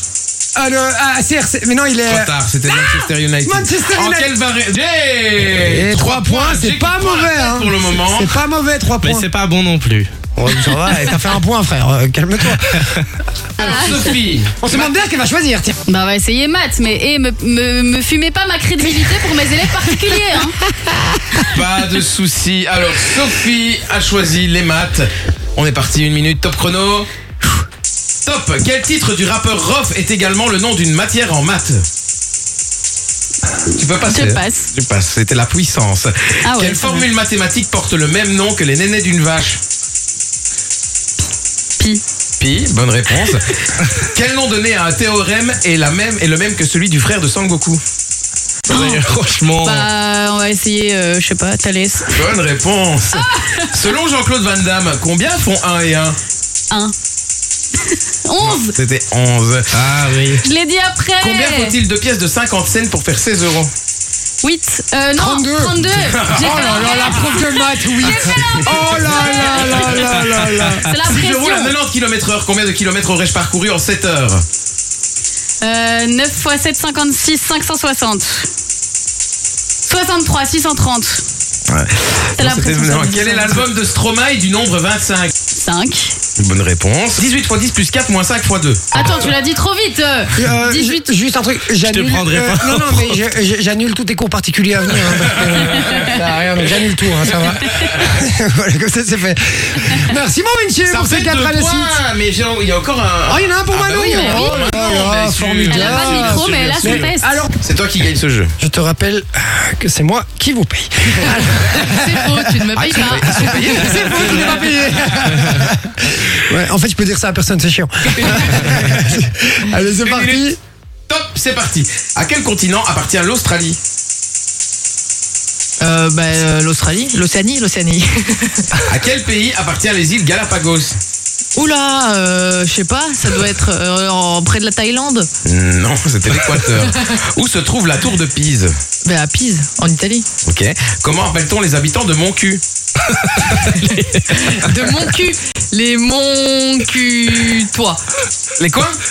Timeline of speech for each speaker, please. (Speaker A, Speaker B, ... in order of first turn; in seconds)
Speaker A: 0.6-4.3, 5.5-9.3, 10.4-13.1, 14.6-15.8, 65.2-65.8, 66.3-70.9, 90.4-102.0, 103.3-107.5, 108.6-120.6
Speaker B: 2.1-8.4, 13.6-14.9, 21.4-27.1, 28.2-31.8, 33.7-39.6, 42.4-47.8, 52.1-56.2, 58.4-59.8, 61.2-63.7, 65.8-67.3, 68.1-69.9, 71.0-74.4, 81.7-85.3, 86.4-89.1, 95.1-98.2, 100.9-108.5, 112.7-115.4, 118.4-119.0, 119.8-120.5, 121.1-123.8, 128.9-131.0, 135.5-138.7, 140.5-142.6, 148.6-149.0
Speaker C: 9.0-10.1, 48.7-49.9, 59.7-60.4, 91.8-93.2, 143.1-145.1
Speaker D: 13.6-14.1, 15.9-20.6, 34.0-34.7, 36.5-37.1, 48.7-49.0, 49.6-52.2, 53.1-53.7, 57.8-58.7, 60.4-61.7, 64.4-70.3, 70.8-71.7, 75.6-78.5, 79.9-81.2, 82.4-83.6, 85.5-86.2, 88.9-91.1, 104.1-105.0, 105.7-107.3, 112.9-113.5
Speaker E: 111.9-113.2, 125.8-128.7, 131.6-135.3, 139.1-140.3, 144.3-148.0